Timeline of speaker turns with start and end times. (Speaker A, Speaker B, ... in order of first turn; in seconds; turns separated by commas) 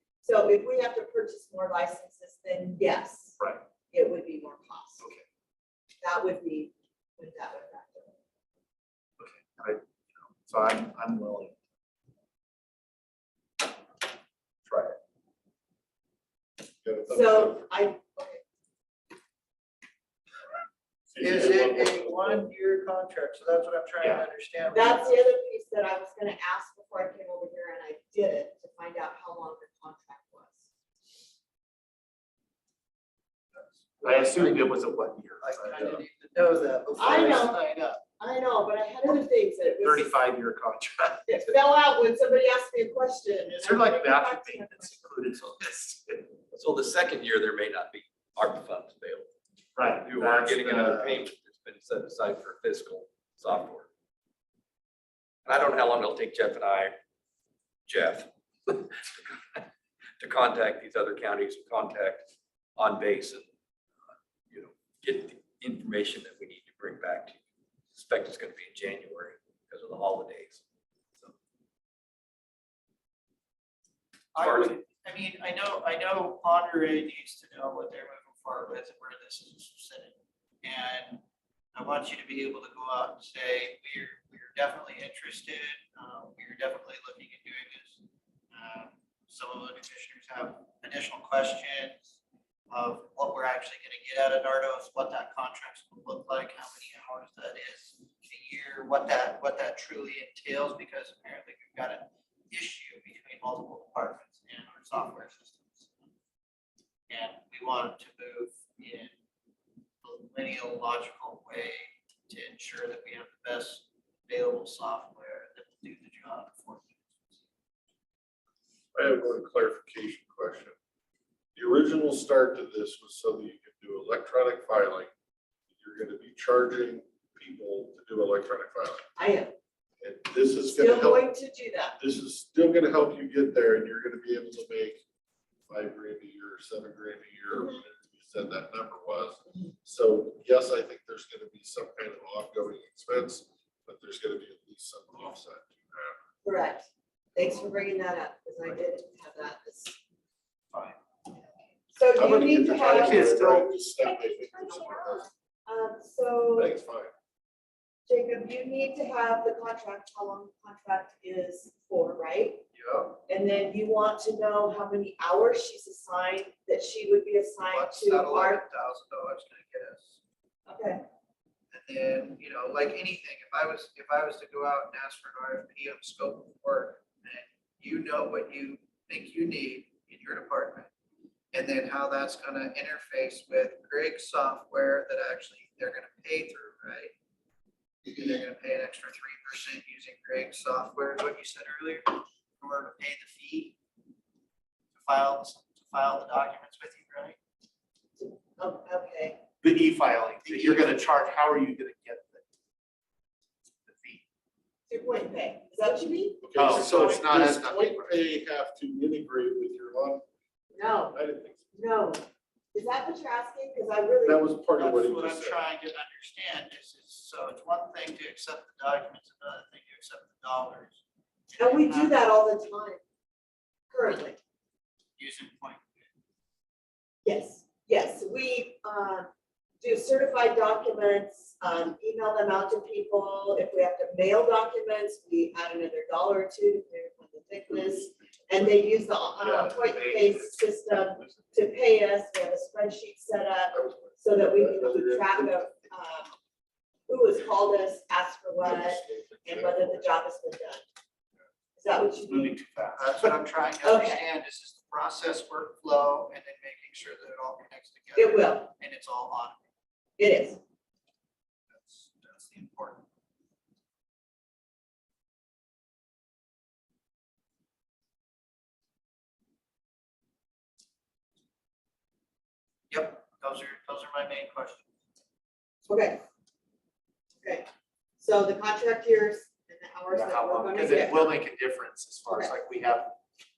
Speaker A: 0.2-3.4, Speaker A: 3.9-5.0, Speaker A: 6.0-8.1, Speaker B: 9.2-11.6, Speaker B: 14.7-15.0, Speaker C: 16.8-17.7, Speaker A: 17.1-18.4, Speaker C: 21.1-22.5, Speaker D: 21.2-25.2, Speaker A: 24.7-30.7, Speaker D: 34.0-34.6, Speaker B: 34.0-36.0, Speaker D: 35.4-38.0, Speaker A: 37.0-37.6, Speaker B: 37.0-37.5, Speaker A: 38.2-40.1, Speaker B: 39.8-41.4, Speaker A: 41.3-45.0, Speaker B: 43.5-46.3, Speaker E: 46.5-49.3, Speaker B: 49.8-51.2, Speaker E: 50.0-53.9, Speaker E: 55.5-56.9, Speaker E: 57.9-59.7, Speaker E: 60.2-63.4, Speaker E: 64.5-67.4, Speaker E: 67.9-70.6, Speaker D: 74.3-81.2, Speaker E: 74.4-74.7, Speaker D: 81.7-88.0, Speaker D: 88.5-92.2, Speaker D: 92.7-105.9, Speaker D: 107.1-109.1, Speaker D: 110.0-117.4, Speaker C: 118.9-120.8, Speaker C: 121.6-125.1, Speaker C: 125.7-129.1, Speaker A: 129.2-129.5, Speaker C: 130.0-131.3, Speaker A: 130.7-131.9, Speaker C: 132.0-135.0, Speaker C: 135.7-146.2, Speaker A: 137.5-137.8, Speaker A: 146.4-150.0, Speaker A: 151.9-153.2, Speaker B: 152.2-153.7, Speaker C: 152.3-155.3, Speaker A: 155.7-156.7, Speaker C: 156.6-157.1, Speaker A: 158.1-162.6, Speaker D: 162.7-163.2, Speaker A: 163.3-168.6, Speaker D: 167.7-170.2, Speaker A: 170.7-171.0, Speaker D: 171.7-180.9, Speaker D: 181.5-187.2, Speaker D: 188.1-193.8, Speaker D: 194.9-197.4, Speaker A: 198.2-199.4, Speaker B: 199.6-202.4, Speaker D: 200.5-200.8, Speaker B: 203.8-204.2, Speaker A: 204.9-207.1, Speaker C: 206.4-210.2, Speaker B: 206.6-208.2, Speaker A: 210.8-211.2, Speaker C: 211.1-211.7, Speaker A: 211.7-214.5, Speaker C: 214.2-215.6, Speaker D: 214.8-221.0, Speaker D: 221.5-222.2, Speaker A: 221.6-223.0, Speaker A: 223.9-224.4, Speaker D: 225.2-226.1, Speaker A: 227.2-229.3, Speaker A: 229.8-246.3, Speaker B: 239.4-240.6, Speaker C: 243.7-245.7, Speaker A: 247.1-250.8, Speaker C: 248.6-250.2, Speaker A: 251.8-252.6, Speaker B: 252.3-253.3, Speaker D: 253.0-259.6, Speaker A: 253.8-254.2, Speaker A: 258.1-258.7, Speaker A: 260.2-260.6, Speaker D: 261.8-263.1, Speaker D: 272.9-274.8, Speaker A: 275.9-276.2, Speaker A: 277.4-277.7, Speaker A: 278.2-281.4, Speaker B: 280.1-283.2, Speaker A: 282.3-282.5